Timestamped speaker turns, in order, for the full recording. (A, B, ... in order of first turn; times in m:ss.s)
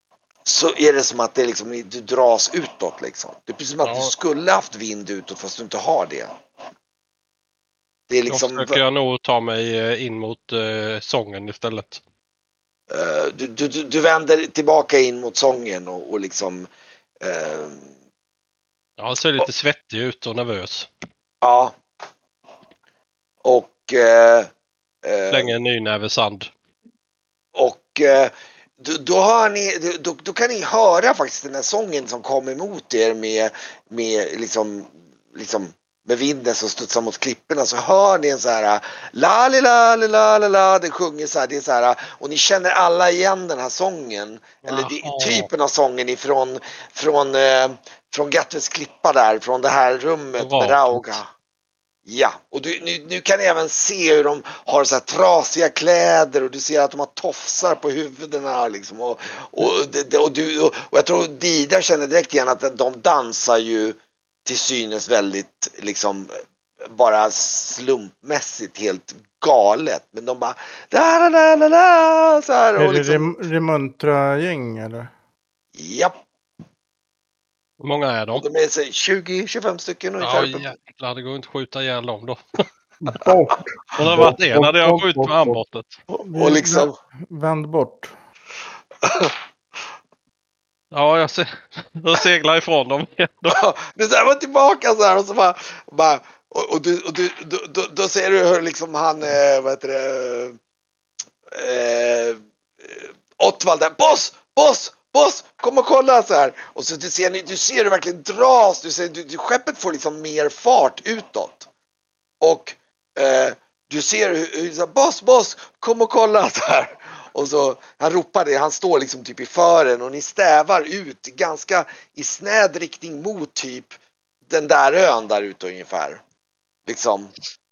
0:00.4-0:06.3 A
0:03.8-0:04.1 B
0:08.1-0:08.8 A
0:08.3-0:12.0 B
0:12.9-0:16.7 A
0:17.2-0:17.9 A
0:19.0-0:20.9 B
0:21.4-0:21.8 A
0:23.4-0:24.5 A
0:25.0-0:25.6 A
0:25.3-0:26.5 B
0:27.6-0:51.3 A
0:44.6-0:45.5 B
0:50.4-0:51.2 B
0:52.0-1:13.3 A
1:12.8-1:15.1 C
1:15.7-1:16.2 A
1:17.8-1:18.4 B
1:18.4-1:20.7 A
1:20.2-1:22.4 B
1:23.0-1:25.6 D
1:24.0-1:26.0 B
1:26.1-1:27.0 A
1:26.2-1:28.1 C
1:29.0-1:29.3 A
1:30.9-1:33.6 B
1:33.4-1:40.6 A
1:41.5-1:51.7 A
1:52.4-2:03.9 A
2:04.5-2:06.2 A
2:06.9-2:07.3 A